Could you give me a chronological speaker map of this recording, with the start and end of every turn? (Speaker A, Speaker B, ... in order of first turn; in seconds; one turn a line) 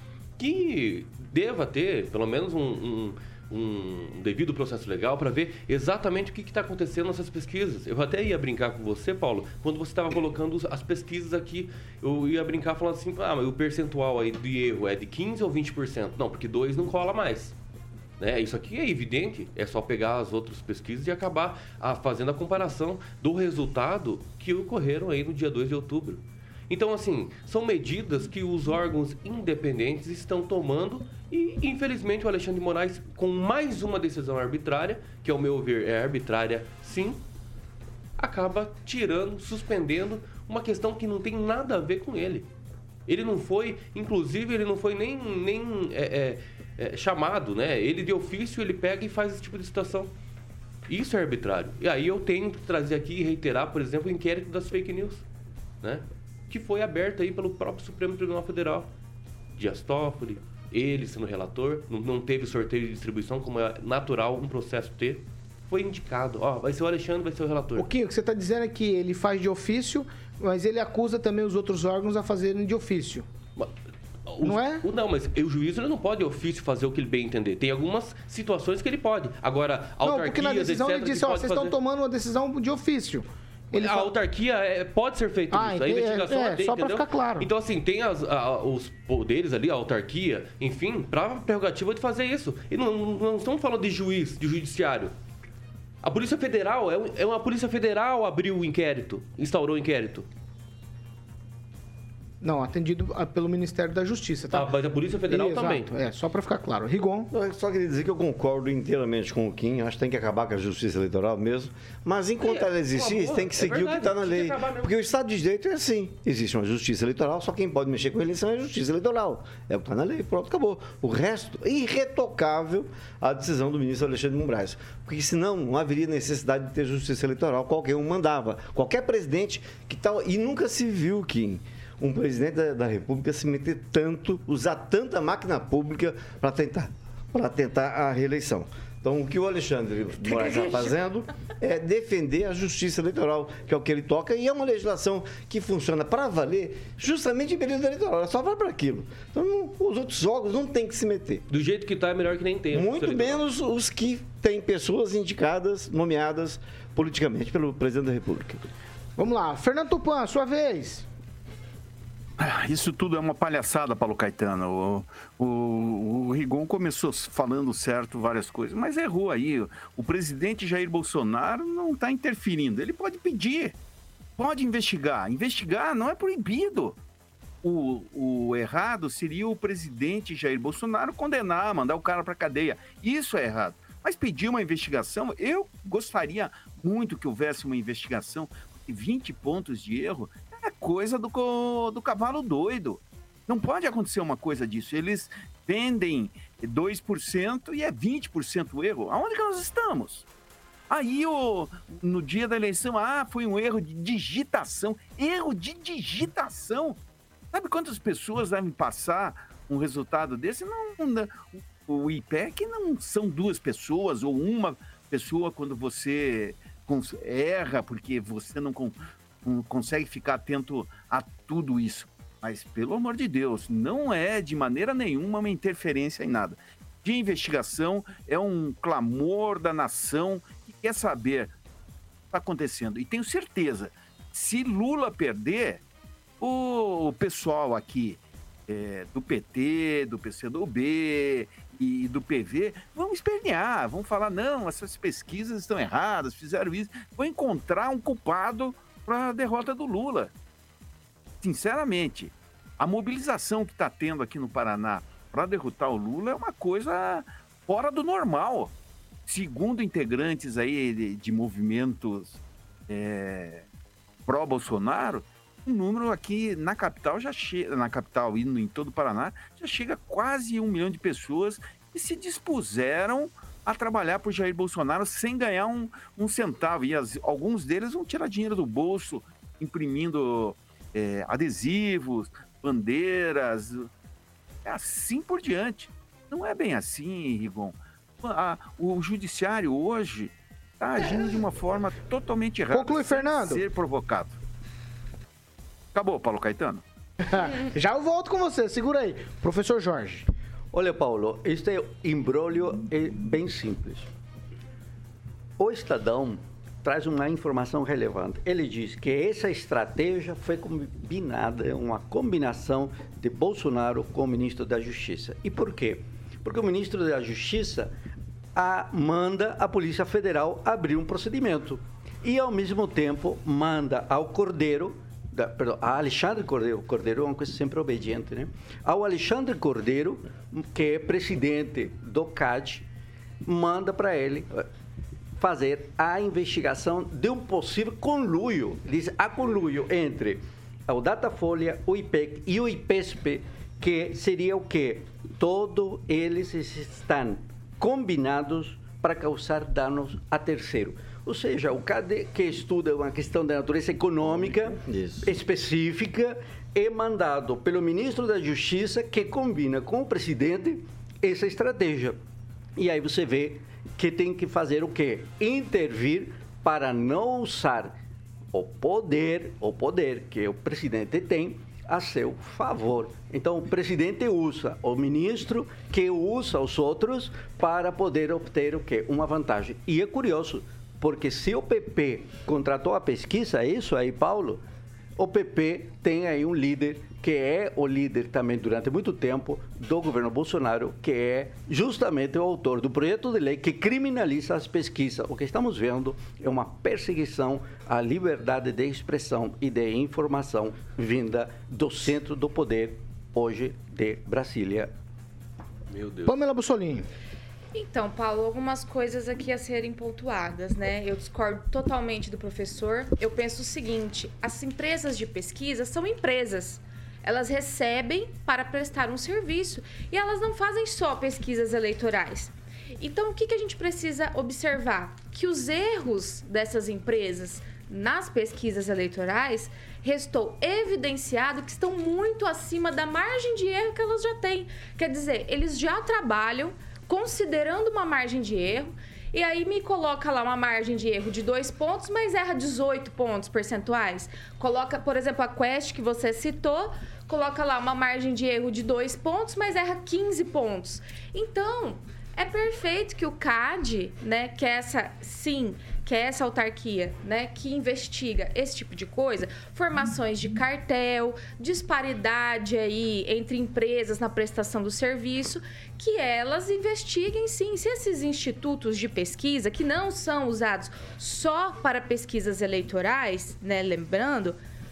Speaker A: 0.4-17.5
Speaker A: 18.2-37.2
Speaker A: 38.2-42.5
Speaker A: 43.1-50.1
Speaker A: 50.9-55.2
Speaker A: 55.8-58.9
Speaker A: 59.6-67.9
Speaker B: 67.8-73.3
Speaker A: 74.3-81.7
Speaker B: 74.4-74.8
Speaker B: 80.0-84.1
Speaker A: 83.7-95.1
Speaker B: 85.5-87.5
Speaker A: 96.0-100.3
Speaker B: 102.4-104.7
Speaker A: 104.5-105.9
Speaker B: 105.2-107.3
Speaker C: 107.3-151.4
Speaker A: 112.4-114.9
Speaker A: 151.5-153.4
Speaker C: 152.7-158.6
Speaker B: 159.2-161.1
Speaker D: 162.4-173.8
Speaker D: 174.4-177.0
Speaker D: 177.6-200.2
Speaker D: 200.9-207.0
Speaker D: 207.5-231.5
Speaker D: 232.3-235.8
Speaker D: 236.4-250.3
Speaker D: 251.4-258.7
Speaker D: 259.3-263.6
Speaker D: 264.3-283.9
Speaker D: 284.6-294.4
Speaker B: 292.7-293.6
Speaker D: 295.9-296.8
Speaker B: 297.2-300.3
Speaker E: 300.7-304.1
Speaker E: 305.6-317.9
Speaker E: 318.6-332.9
Speaker E: 333.4-334.7
Speaker E: 335.4-362.2
Speaker C: 354.3-355.3
Speaker E: 362.8-367.9
Speaker E: 368.5-384.6
Speaker E: 385.2-404.9
Speaker A: 405.9-406.3
Speaker B: 406.2-407.1
Speaker F: 407.7-474.6